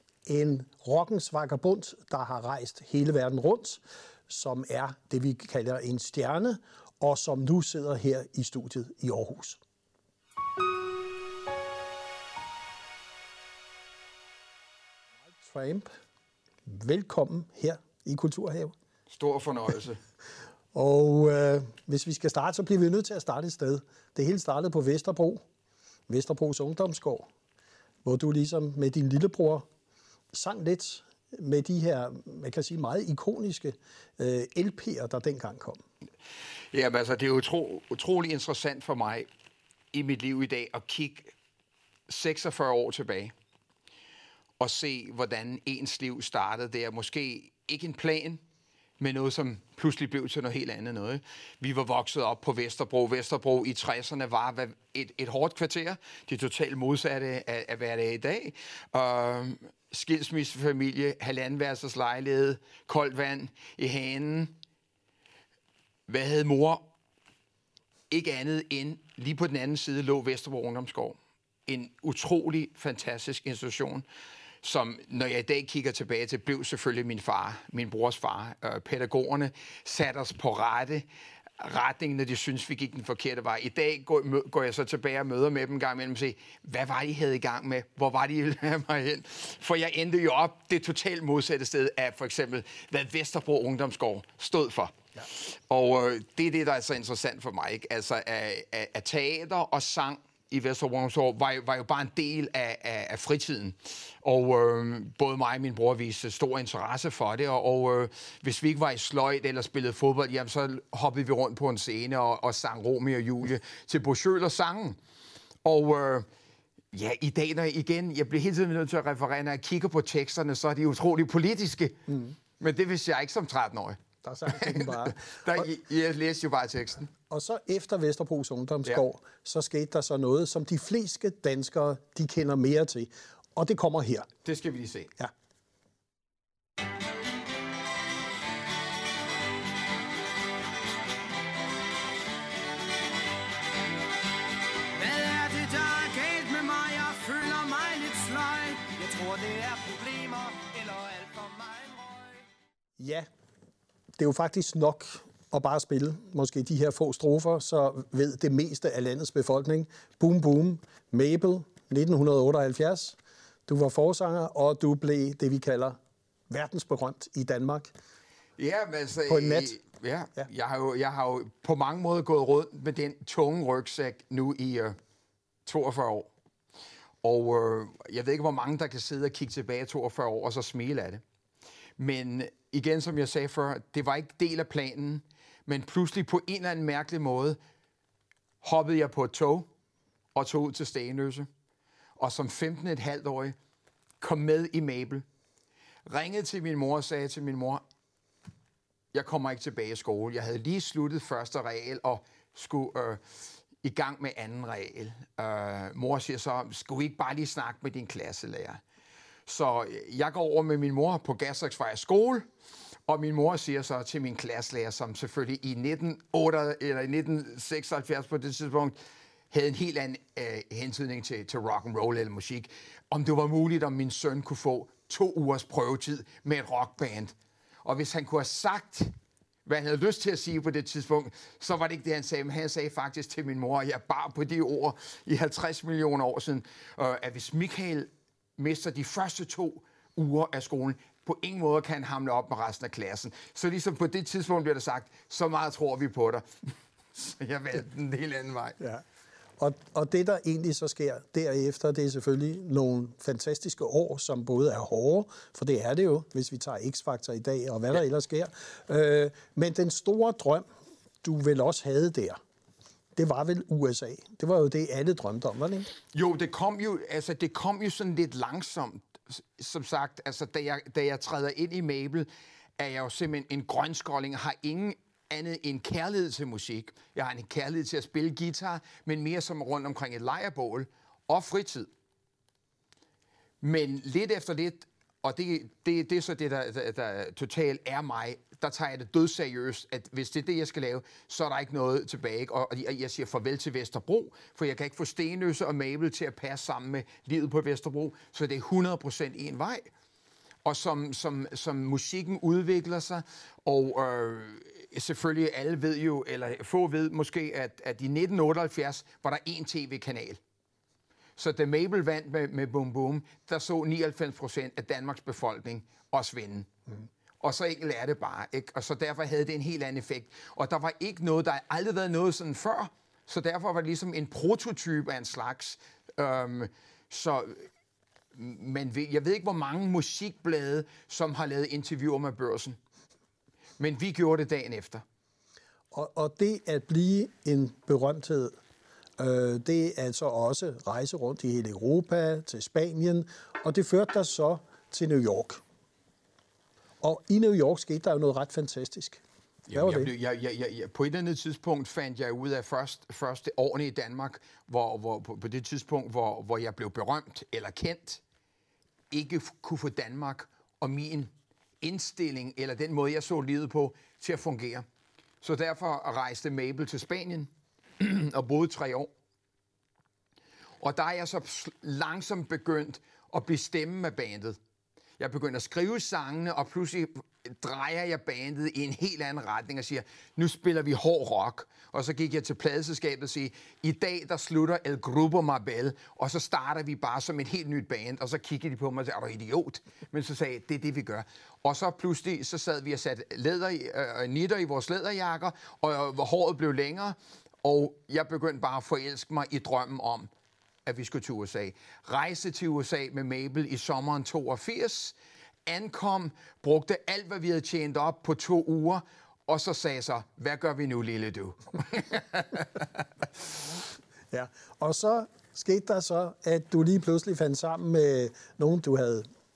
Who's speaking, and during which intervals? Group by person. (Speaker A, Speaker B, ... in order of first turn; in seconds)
Speaker A: 0.2-9.6, 15.4-15.9, 16.7-18.7, 20.7-25.4, 26.1-27.3, 28.0-29.7, 30.3-35.8, 124.2-125.6, 127.3-134.3, 153.0-153.3, 154.2-166.0, 166.5-167.9, 169.3-169.7, 249.6-260.6, 261.2-262.4, 263.1-265.9, 335.9-338.6, 339.2-345.6, 347.0-349.2, 349.7-350.1, 414.3-419.3
Speaker B: 19.1-20.0, 36.7-39.3, 39.9-41.3, 42.1-43.3, 44.6-48.4, 49.0-64.5, 66.1-66.8, 68.1-74.0, 74.6-81.1, 81.6-115.0, 115.6-116.3, 116.9-127.1, 134.4-135.1, 168.6-175.0, 175.7-176.3, 177.2-181.2, 182.0-187.6, 188.6-189.7, 190.3-191.5, 192.2-193.6, 194.2-195.2, 196.1-197.8, 199.1-203.2, 203.8-208.8, 209.5-212.5, 213.1-218.9, 219.5-227.3, 227.8-229.1, 229.7-246.4, 247.1-248.8, 266.1-281.9, 283.6-299.9, 300.6-310.4, 311.4-316.7, 317.4-327.7, 328.3-332.8, 333.8-335.0, 349.7-358.2, 359.1-364.8, 365.4-369.1, 370.8-374.6, 375.2-400.3, 400.9-405.1, 405.6-412.9
Speaker C: 145.0-152.4